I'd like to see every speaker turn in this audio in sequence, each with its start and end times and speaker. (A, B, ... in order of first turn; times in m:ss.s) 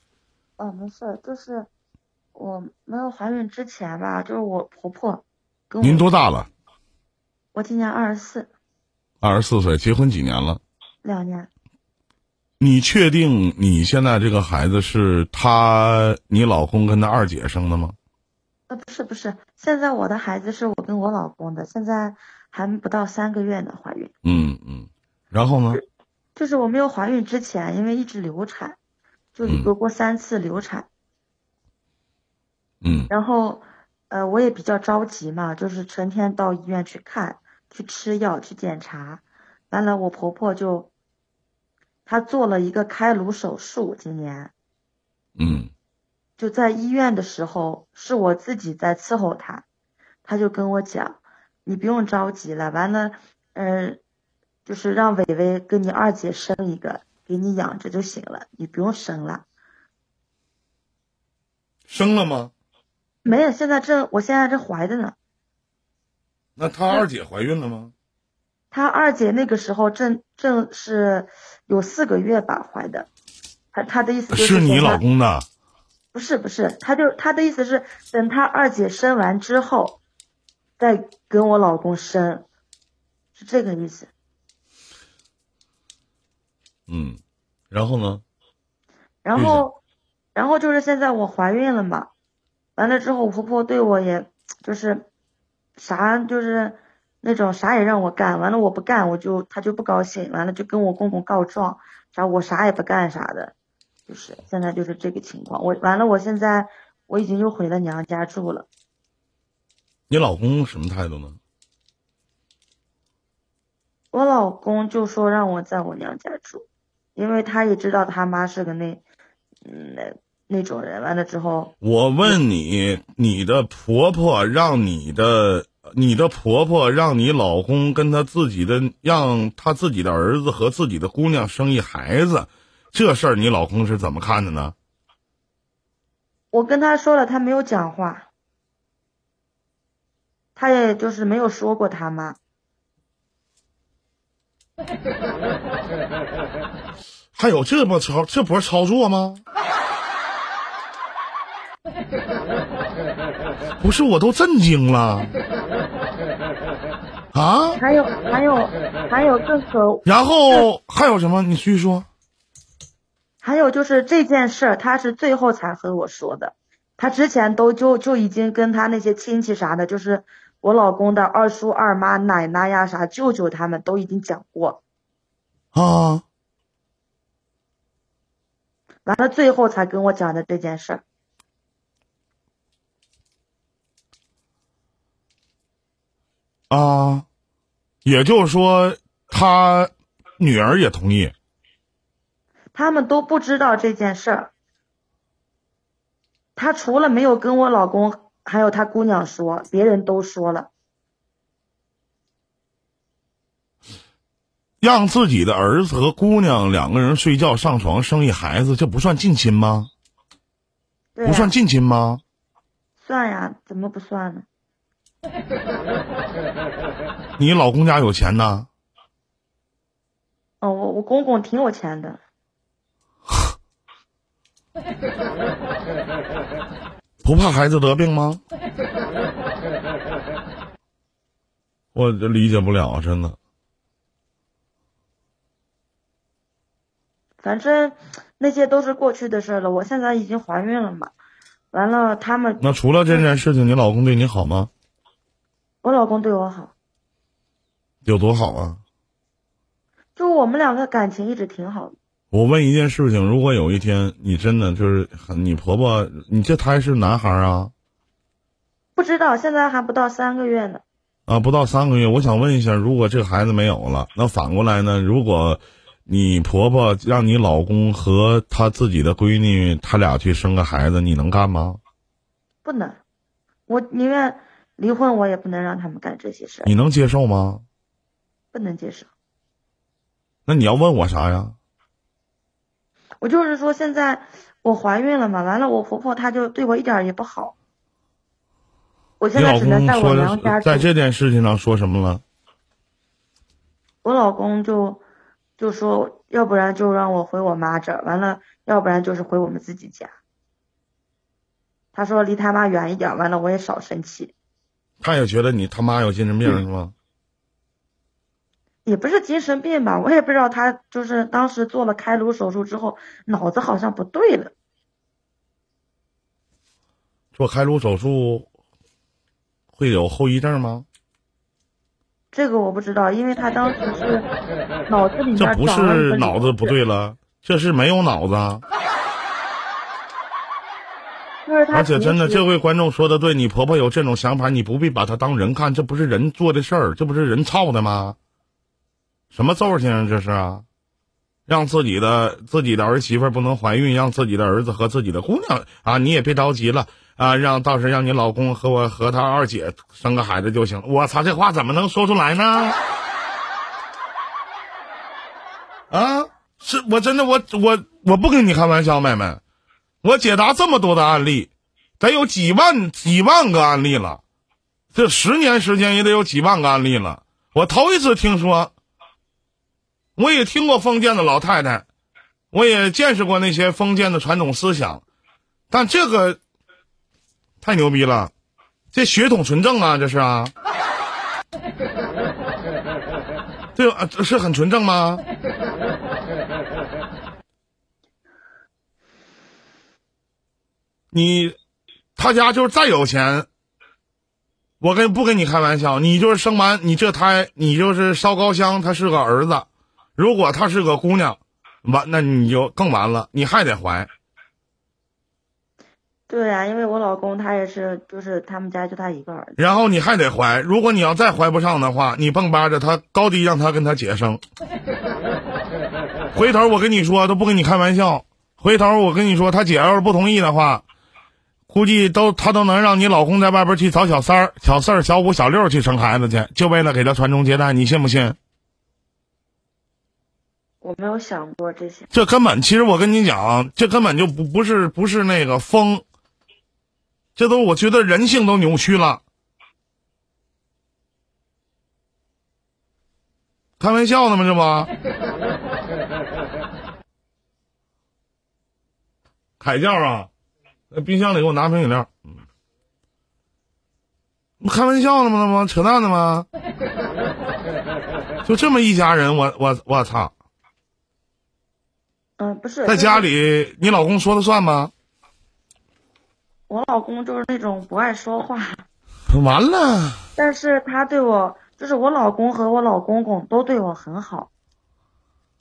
0:00.6-0:01.7 A
0:02.3-0:06.0 A
0:05.8-0:06.5 B
0:07.5-0:08.5 A
0:09.2-0:10.6 B
0:11.0-0:11.5 A
0:12.6-0:18.0 B
0:18.7-0:24.1 A
0:24.2-0:25.8 B
0:26.4-0:28.8 A
0:29.3-0:30.9 A
0:29.4-0:29.7 B
0:32.8-0:33.1 B
0:33.1-0:40.9 A
0:42.1-0:44.5 A
0:45.4-0:45.7 B
0:46.4-0:49.6 A
0:50.2-0:54.0 A
0:54.6-0:59.4 A
1:01.9-1:02.5 B
1:03.2-1:05.1 A
1:06.6-1:07.9 B
1:08.7-1:13.1 A
1:13.7-1:15.0 A
1:14.3-1:15.4 B
1:16.1-1:20.0 A
1:20.8-1:22.4 A
1:23.4-1:24.1 A
1:26.9-1:27.2 B
1:27.7-1:28.2 B
1:29.2-1:29.8 A
1:29.3-1:29.6 B
1:30.3-1:32.1 A
1:32.8-1:35.1 A
1:35.8-1:43.5 A
1:44.1-1:48.7 A
1:50.1-1:51.4 B
1:54.1-1:59.0 A
1:59.6-2:02.4 A
2:01.8-2:14.7 B
2:16.5-2:18.3 A
2:20.6-2:22.4 A
2:27.3-2:29.4 B
2:33.8-2:35.4 B
2:37.3-2:37.8 B
2:37.8-2:40.6 A
2:40.0-2:42.1 B
2:43.4-2:54.8 A
2:55.7-2:56.2 B
2:59.0-3:01.0 A
3:06.7-3:07.2 B
3:08.0-3:11.3 B
3:12.7-3:14.5 A
3:16.6-3:20.7 A
3:24.8-3:29.9 B
3:31.1-3:31.5 A
3:31.2-3:32.2 B
3:33.0-3:34.4 A
3:37.4-3:38.7 B
3:40.6-3:42.2 A
3:47.2-3:48.4 B
3:51.9-3:53.4 B
3:57.4-4:01.1 A
4:01.7-4:03.2 A
4:02.6-4:04.7 B
4:05.8-4:06.7 A
4:08.0-4:08.8 B
4:10.2-4:12.0 A
4:12.3-4:17.7 B
4:19.0-4:20.8 A
4:21.3-4:31.8 B
4:32.6-4:33.0 A
4:33.7-4:36.7 A
4:36.6-4:37.6 B
4:38.5-4:39.1 A
4:40.4-4:41.6 B
4:43.2-4:47.5 A
4:49.2-4:50.9 A
4:49.3-4:52.2 B
4:54.0-4:55.0 A
4:55.6-5:00.1 A
5:01.9-5:04.3 A
5:05.0-5:06.9 B
5:08.8-5:14.5 A
5:17.3-5:18.5 B
5:19.7-5:20.8 B
5:22.3-5:24.3 A
5:24.9-5:26.7 A
5:25.4-5:28.6 B
5:31.4-5:32.4 A
5:31.7-5:38.2 B
5:39.3-5:40.6 B
5:41.5-5:52.8 B
5:55.9-5:59.4 B
6:00.0-6:04.2 B
6:04.9-6:08.7 B
6:10.2-6:11.8 B
6:12.5-6:15.0 B
6:15.7-6:16.4 B
6:17.6-6:18.3 B
6:18.9-6:20.5 B
6:23.7-6:25.2 B
6:31.1-6:31.5 B
6:32.2-6:33.5 B
6:34.8-6:44.1 B
6:46.3-6:49.6 A
6:49.6-6:54.4 B
6:56.3-7:00.8 B
7:01.7-7:08.4 B
7:10.8-7:12.1 A
7:12.1-7:16.0 B
7:17.4-7:19.2 B
7:23.8-7:24.9 B
7:29.6-7:30.3 B
7:30.9-7:32.2 B
7:34.6-7:36.5 B
7:38.4-7:40.3 B
7:42.4-7:43.3 A
7:42.8-7:44.9 B
7:46.7-7:48.8 A
7:49.3-7:50.2 B
7:50.4-7:54.5 A